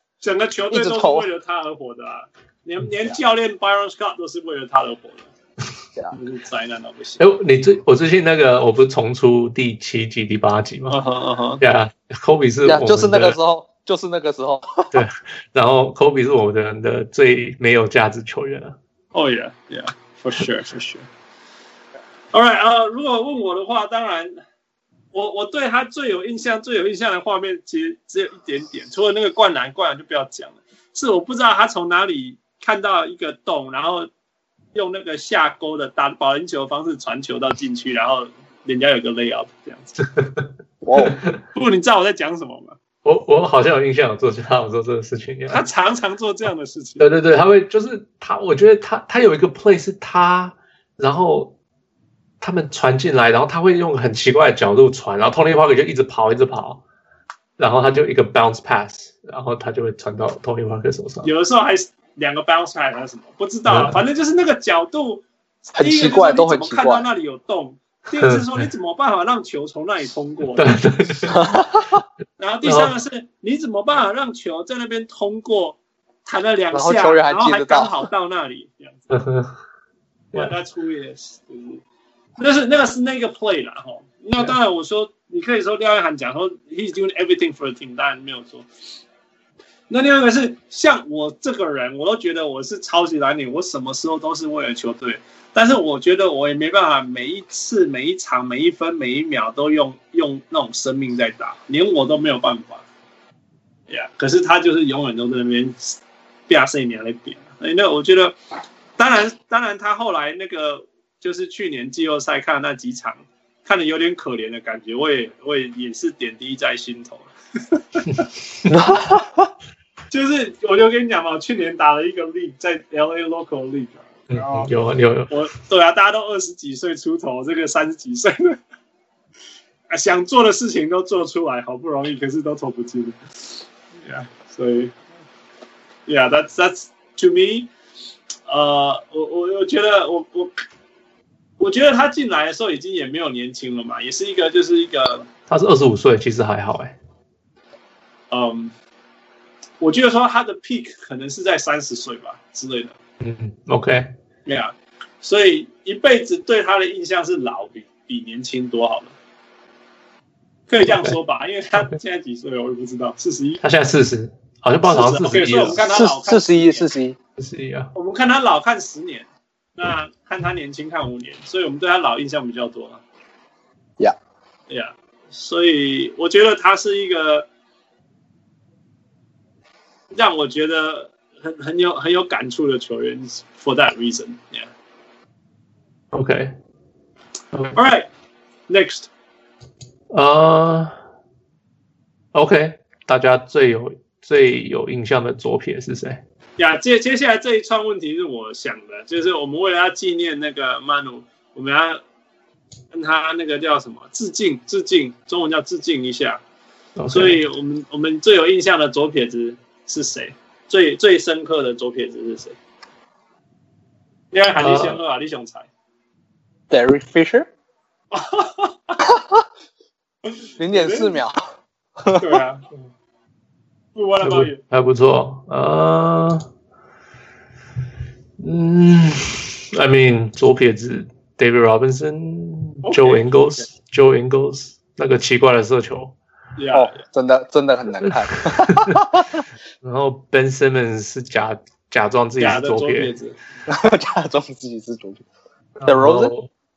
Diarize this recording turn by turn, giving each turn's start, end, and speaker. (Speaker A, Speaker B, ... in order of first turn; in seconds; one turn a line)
Speaker A: 0.2-5.3
Speaker B: 0.7-1.2
Speaker A: 6.1-7.2
Speaker C: 7.2-11.0
Speaker A: 10.9-11.6
Speaker C: 11.6-13.4
Speaker B: 12.6-15.0
Speaker C: 14.9-18.8
Speaker A: 19.1-21.1
Speaker A: 22.3-24.4
Speaker A: 25.1-34.1
Speaker A: 34.7-40.0
Speaker B: 40.8-41.1
Speaker A: 41.5-42.8
Speaker C: 43.0-45.6
Speaker A: 45.5-47.0
Speaker C: 47.0-51.5
Speaker C: 52.4-56.8
Speaker C: 57.6-61.3
Speaker A: 61.2-70.8
Speaker C: 63.7-64.1
Speaker B: 65.7-67.1
Speaker C: 68.2-68.7
Speaker C: 70.5-71.5
Speaker B: 71.3-72.0
Speaker A: 72.4-79.1
Speaker C: 72.6-73.0
Speaker B: 76.7-77.9
Speaker C: 79.1-79.5
Speaker A: 80.3-81.8
Speaker A: 82.4-88.7
Speaker A: 89.9-102.8
Speaker A: 103.9-108.3
Speaker A: 109.0-118.3
Speaker B: 118.7-119.5
Speaker A: 120.1-124.7
Speaker C: 124.3-125.4
Speaker A: 125.3-128.6
Speaker A: 129.9-134.9
Speaker A: 136.1-137.7
Speaker A: 138.5-140.6
Speaker A: 141.6-145.3
Speaker C: 145.5-146.9
Speaker A: 148.3-148.7
Speaker A: 149.8-152.9
Speaker C: 153.2-154.1
Speaker A: 154.4-159.1
Speaker A: 160.7-163.6
Speaker C: 160.9-161.1
Speaker C: 163.6-165.8
Speaker A: 164.8-166.9
Speaker B: 165.8-167.2
Speaker C: 167.4-167.9
Speaker A: 167.9-173.0
Speaker A: 174.7-177.5
Speaker A: 180.1-184.7
Speaker C: 186.1-186.5
Speaker A: 187.8-188.1
Speaker A: 188.7-189.1
Speaker C: 190.1-191.0
Speaker C: 192.3-196.2
Speaker A: 196.6-202.0
Speaker A: 202.9-206.4
Speaker C: 207.0-207.4
Speaker A: 207.1-212.6
Speaker A: 214.3-215.7
Speaker C: 214.6-215.0
Speaker B: 216.7-217.5
Speaker A: 218.1-219.0
Speaker A: 220.3-221.2
Speaker B: 220.6-221.4
Speaker B: 222.0-222.4
Speaker A: 222.2-222.8
Speaker A: 223.9-224.6
Speaker C: 224.2-226.4
Speaker C: 228.4-236.1
Speaker A: 232.8-233.7
Speaker A: 236.6-237.0
Speaker B: 236.7-239.4
Speaker C: 238.0-239.1
Speaker C: 239.8-243.1
Speaker A: 242.4-243.4
Speaker B: 243.7-245.2
Speaker C: 245.8-246.5
Speaker B: 245.9-246.3